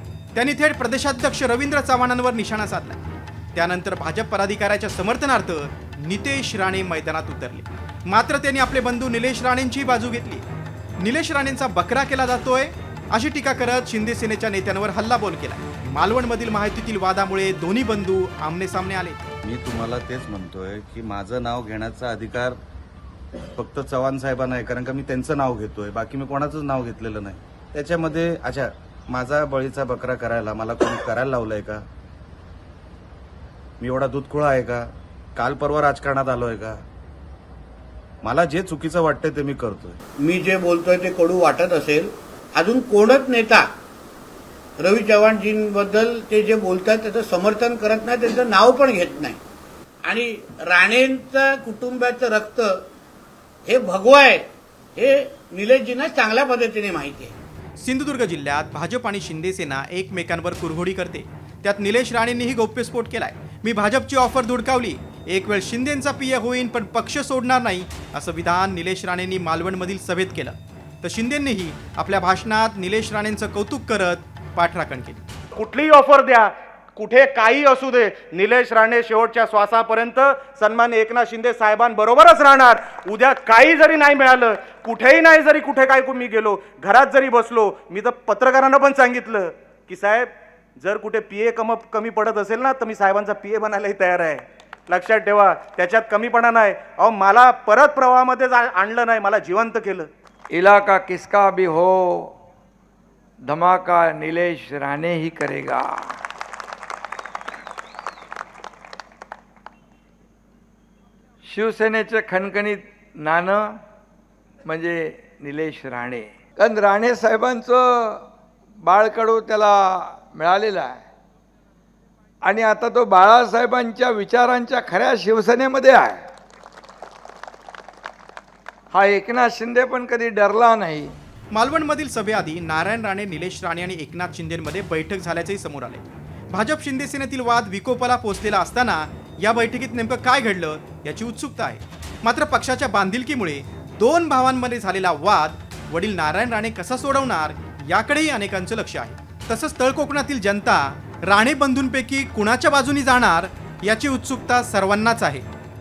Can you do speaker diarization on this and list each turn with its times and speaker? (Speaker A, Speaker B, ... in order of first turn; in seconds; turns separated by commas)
Speaker A: 0.3-3.0, Speaker A: 3.5-10.4, Speaker A: 11.0-19.2, Speaker B: 19.4-22.6, Speaker B: 23.6-31.8, Speaker B: 33.8-36.8, Speaker B: 38.2-40.0, Speaker C: 40.2-43.6, Speaker C: 44.8-49.4, Speaker C: 50.0-52.8, Speaker C: 53.6-54.4, Speaker C: 55.0-57.3, Speaker A: 57.8-75.2, Speaker D: 75.5-100.1, Speaker E: 100.5-102.3, Speaker E: 103.4-106.2, Speaker E: 111.4-113.8, Speaker E: 114.6-118.2, Speaker E: 118.8-121.0, Speaker E: 122.4-126.2, Speaker E: 128.9-131.1, Speaker A: 131.5-155.4